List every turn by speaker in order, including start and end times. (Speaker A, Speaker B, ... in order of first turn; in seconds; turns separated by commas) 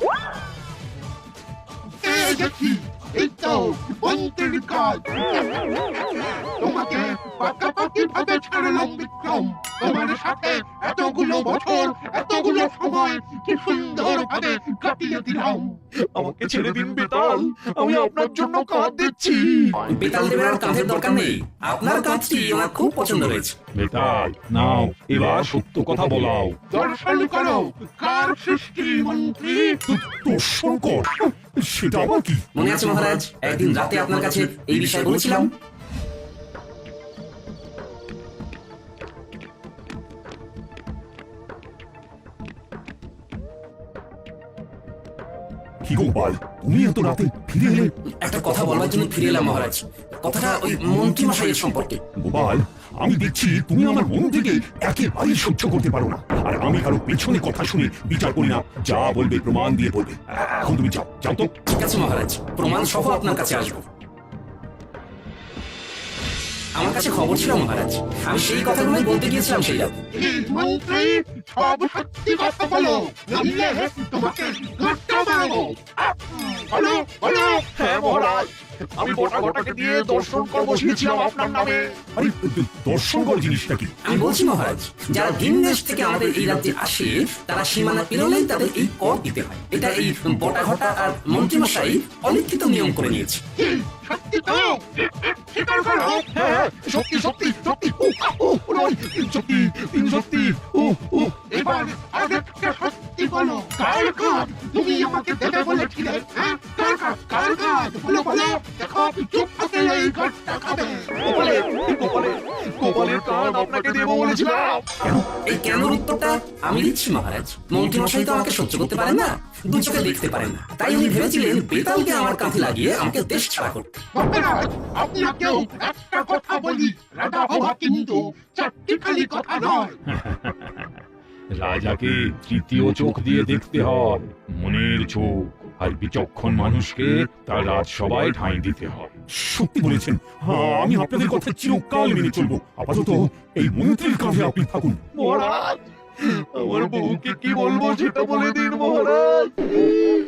Speaker A: 1.9-15.8, Speaker B: 16.0-19.8, Speaker C: 19.9-23.6, Speaker D: 23.7-26.6, Speaker A: 26.7-29.8, Speaker E: 29.8-32.4, Speaker C: 32.5-35.5, Speaker E: 45.8-47.9, Speaker C: 48.2-52.0, Speaker E: 52.2-61.5, Speaker C: 61.7-63.8, Speaker C: 66.7-70.0, Speaker A: 70.1-77.7, Speaker B: 77.8-81.9, Speaker E: 82.2-83.9, Speaker C: 84.0-93.4, Speaker A: 93.6-96.4, Speaker B: 96.3-101.6, Speaker A: 101.4-111.2, Speaker B: 111.2-114.8, Speaker C: 115.0-124.0, Speaker A: 124.1-130.0, Speaker D: 130.1-130.9, Speaker D: 131.5-139.1, Speaker E: 139.3-145.0, Speaker B: 145.2-149.7